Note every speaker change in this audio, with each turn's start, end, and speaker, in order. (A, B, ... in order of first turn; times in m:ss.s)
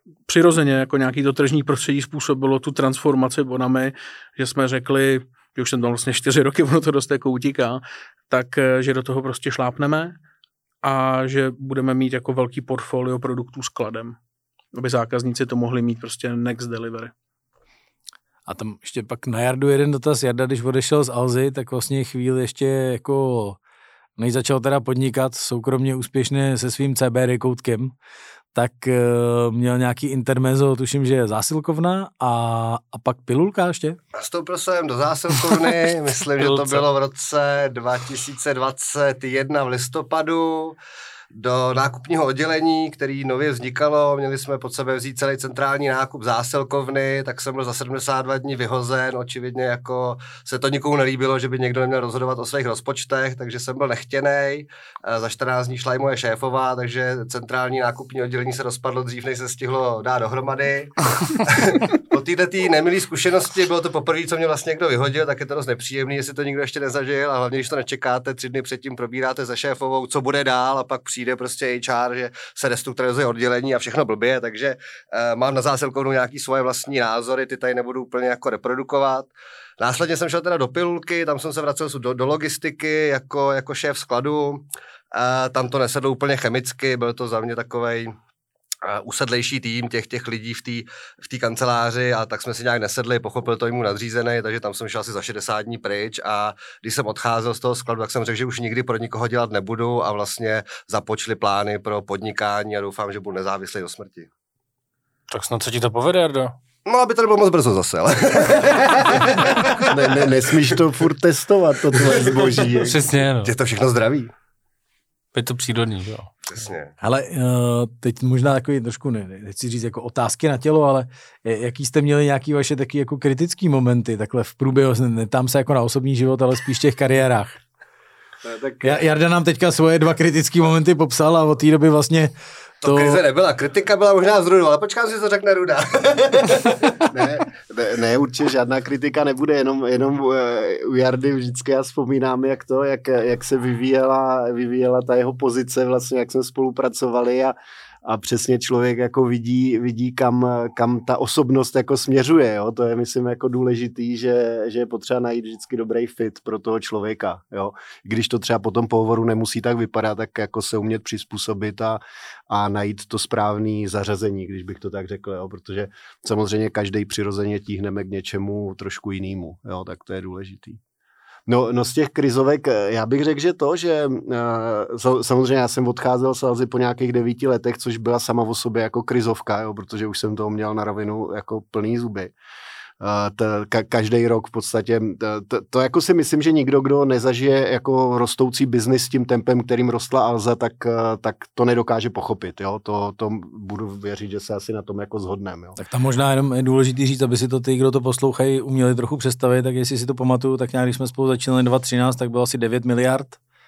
0:00.3-0:10.2 A
0:10.8-0:14.2 A
0:14.7-0:17.1 A
0:18.5-0:23.6 B
0:24.2-0:27.9 B
0:28.5-0:34.0 B
0:34.2-0:40.8 C
0:36.4-0:36.8 D
0:41.3-1:28.1 C
1:28.8-1:44.3 C
1:45.3-1:46.5 D
1:46.8-1:50.7 C
1:49.8-1:53.0 E
1:52.0-1:52.5 C
1:52.8-1:53.5 D
1:53.4-1:54.3 C
1:55.3-1:56.3 D
1:56.5-1:56.9 C
1:57.0-2:07.6 B
2:08.4-2:09.0 E
2:08.8-2:12.3 B
2:12.8-2:17.5 C
2:12.8-2:13.2 B
2:17.1-2:50.8 E
2:51.5-3:02.3 E
3:03.0-3:15.8 E
3:15.8-3:23.4 B